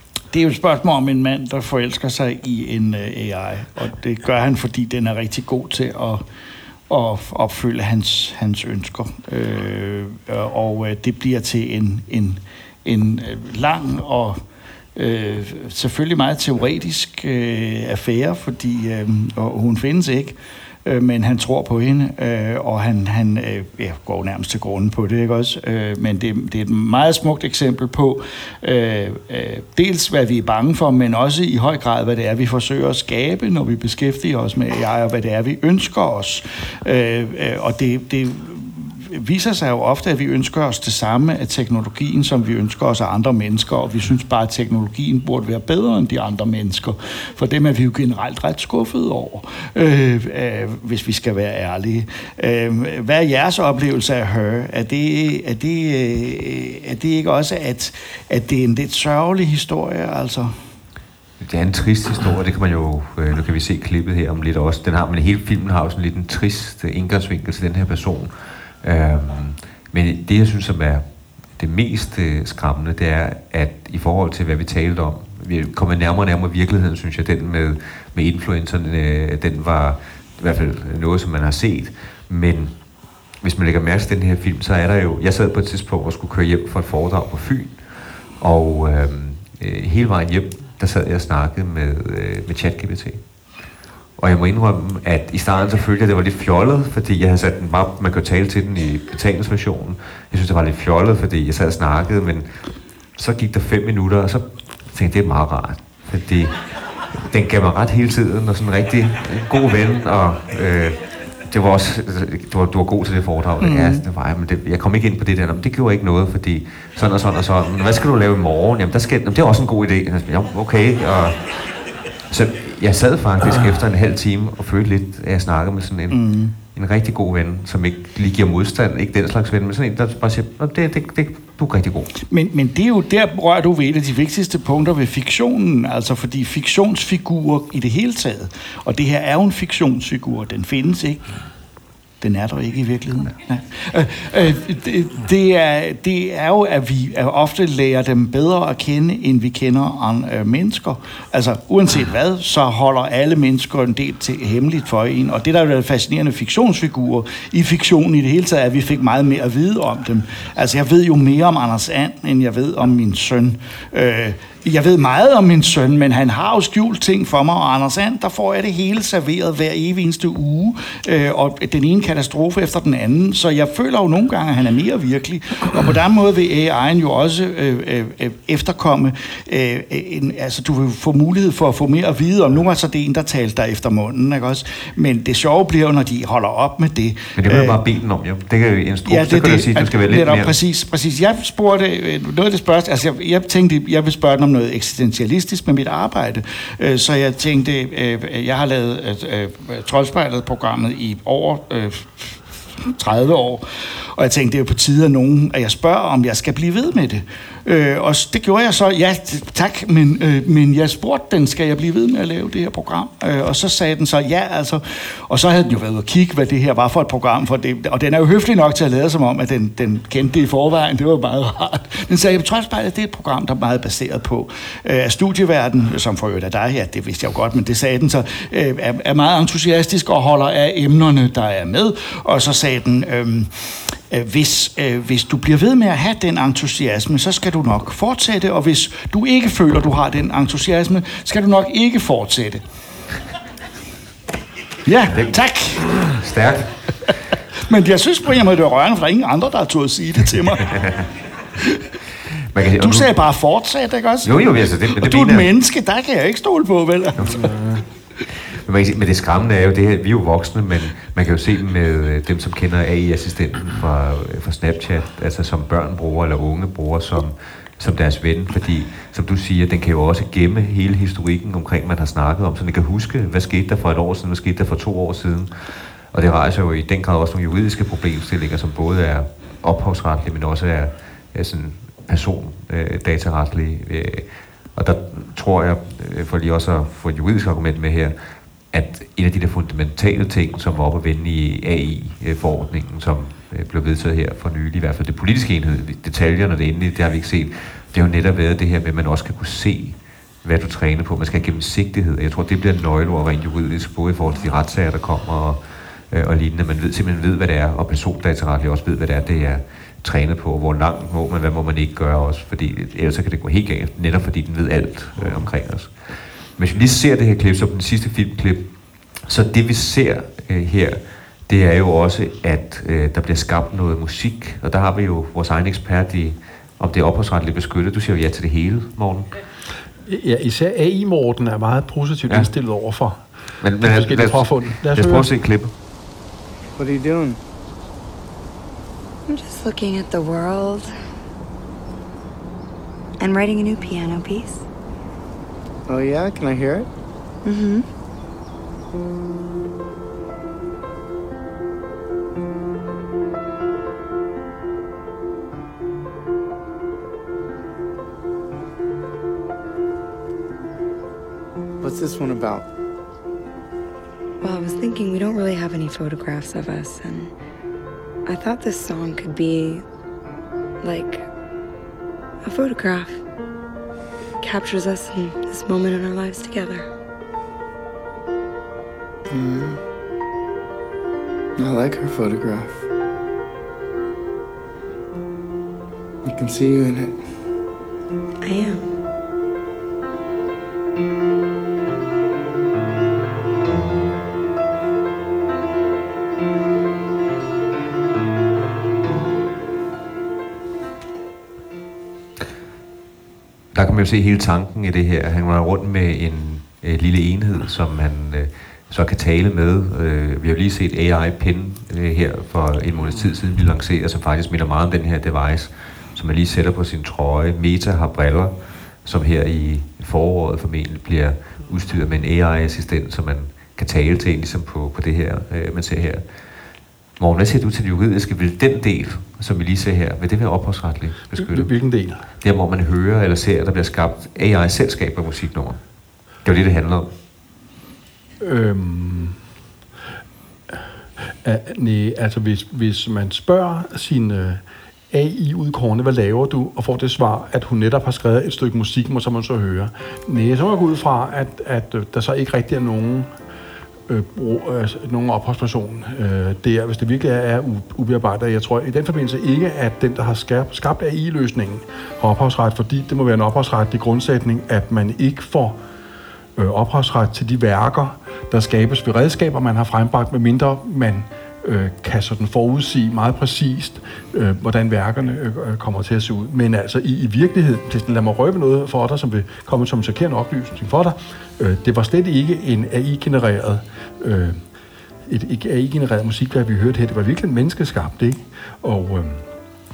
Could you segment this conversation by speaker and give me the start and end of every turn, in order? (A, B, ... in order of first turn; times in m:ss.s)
0:00.3-0:06.2 A
0:06.9-0:14.4 A
0:15.0-1:00.6 A
1:01.4-1:11.0 B
1:11.6-1:22.8 B
1:23.4-1:33.2 B
1:34.2-2:12.1 B
1:53.6-1:54.0 A
2:06.1-2:06.5 A
2:12.3-2:21.3 A
2:22.2-3:07.8 A
3:07.4-3:10.6 B
3:09.1-4:02.6 A
4:04.8-4:05.9 A
4:05.9-4:06.7 B
4:07.6-4:10.7 A
4:10.7-4:11.1 B
4:12.5-4:13.1 B
4:12.8-4:17.5 A
4:14.2-4:15.5 B
4:17.2-4:17.7 B
4:17.2-4:17.8 C
4:18.3-4:48.2 B
4:48.7-5:18.7 B
5:19.2-5:29.3 B
5:30.1-5:33.2 C
5:33.6-5:35.7 B
5:33.8-5:35.3 C
5:36.8-5:37.4 D
5:39.3-5:40.9 E
5:43.2-5:44.7 E
5:45.9-5:46.9 D
5:47.4-5:47.9 E
6:01.8-6:02.7 D
6:04.4-6:07.3 E
6:08.3-6:09.8 E
6:10.8-6:11.3 E
6:12.4-6:13.2 E
6:14.4-6:16.9 E
6:19.3-6:19.8 D
6:21.6-6:22.9 D
6:26.2-6:27.2 D
6:28.4-6:28.9 E
6:43.7-7:06.2 B
7:07.2-7:11.7 B
7:11.4-7:12.2 C
7:12.4-7:15.8 B
7:16.4-7:17.1 B
7:18.4-7:19.4 C
7:21.4-7:33.3 C
7:34.1-7:45.8 C
7:46.6-8:04.6 C
8:05.3-8:09.4 C